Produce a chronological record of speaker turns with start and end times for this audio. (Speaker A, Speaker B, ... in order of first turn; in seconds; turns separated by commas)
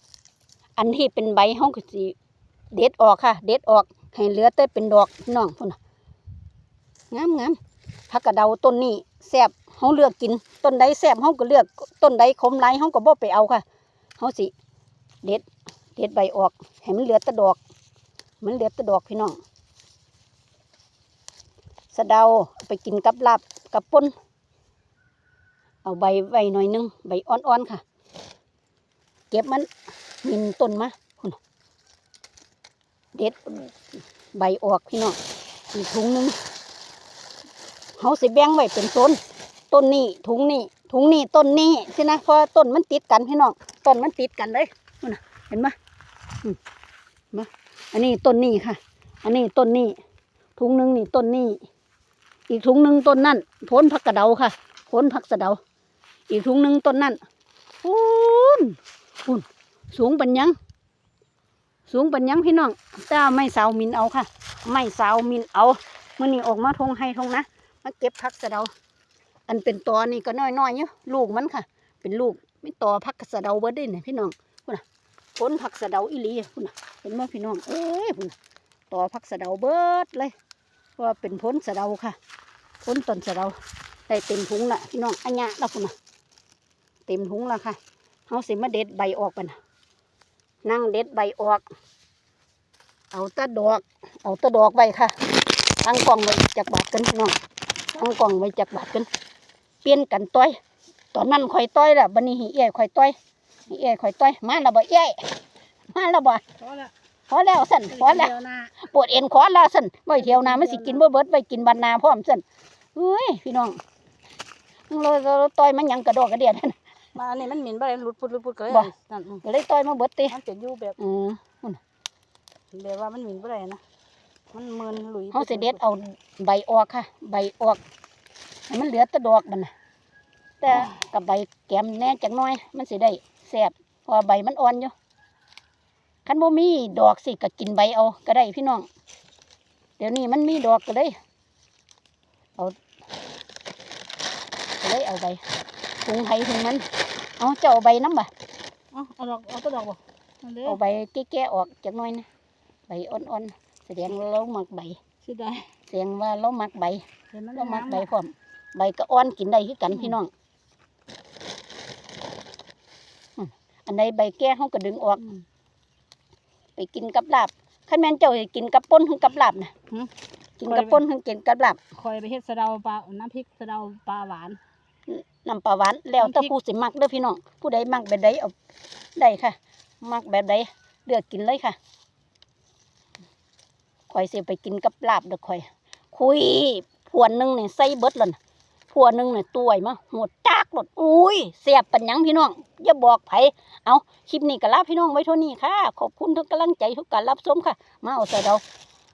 Speaker A: 0.8-2.1, Speaker A: 2.7-5.8, Speaker A: 7.1-7.6, Speaker A: 8.1-13.6, Speaker A: 14.2-14.5, Speaker A: 15.9-17.6, Speaker A: 18.4-19.4, Speaker A: 21.9-24.1, Speaker A: 25.8-27.8, Speaker A: 29.3-29.7, Speaker A: 30.2-31.4, Speaker A: 33.1-33.7, Speaker A: 34.3-35.2, Speaker A: 35.7-36.4, Speaker A: 38.0-39.2, Speaker A: 39.7-45.7, Speaker A: 47.3-50.0, Speaker A: 50.5-51.6, Speaker A: 52.5-55.6, Speaker A: 56.3-57.2, Speaker A: 57.8-60.5, Speaker A: 61.9-68.7, Speaker A: 69.5-74.8, Speaker A: 75.4-78.3, Speaker A: 78.9-80.3, Speaker A: 81.0-82.2, Speaker A: 82.8-83.5, Speaker A: 84.1-85.9, Speaker A: 87.1-87.8, Speaker A: 88.3-89.5, Speaker A: 90.6-91.6, Speaker A: 93.1-95.1, Speaker A: 95.8-97.4, Speaker A: 97.9-99.1, Speaker A: 99.8-100.6, Speaker A: 101.1-103.2, Speaker A: 103.7-105.2, Speaker A: 105.9-106.4, Speaker B: 106.6-106.9, Speaker A: 107.3-112.4, Speaker B: 107.9-108.8, Speaker B: 110.2-111.0, Speaker A: 112.9-113.8, Speaker A: 114.9-116.8, Speaker B: 117.1-119.4, Speaker A: 119.4-120.3, Speaker B: 120.3-121.0, Speaker A: 121.0-121.8, Speaker B: 122.7-123.8, Speaker B: 124.5-125.8, Speaker A: 125.3-127.8, Speaker A: 128.7-129.7, Speaker A: 130.6-134.9, Speaker B: 130.7-130.9, Speaker A: 136.2-138.9, Speaker A: 140.0-141.2, Speaker A: 144.8-145.4, Speaker A: 146.0-146.8, Speaker A: 147.4-148.3, Speaker B: 148.9-150.8, Speaker A: 150.6-152.2, Speaker A: 152.9-155.0, Speaker B: 155.2-155.7, Speaker A: 155.9-157.0, Speaker B: 157.3-158.1, Speaker A: 157.5-160.3, Speaker A: 163.4-165.3, Speaker A: 166.8-169.7, Speaker A: 170.6-171.8, Speaker B: 170.7-171.0, Speaker B: 171.9-174.6, Speaker A: 175.1-178.5, Speaker B: 176.2-176.5, Speaker A: 179.2-181.8, Speaker A: 184.1-188.3, Speaker A: 188.9-198.6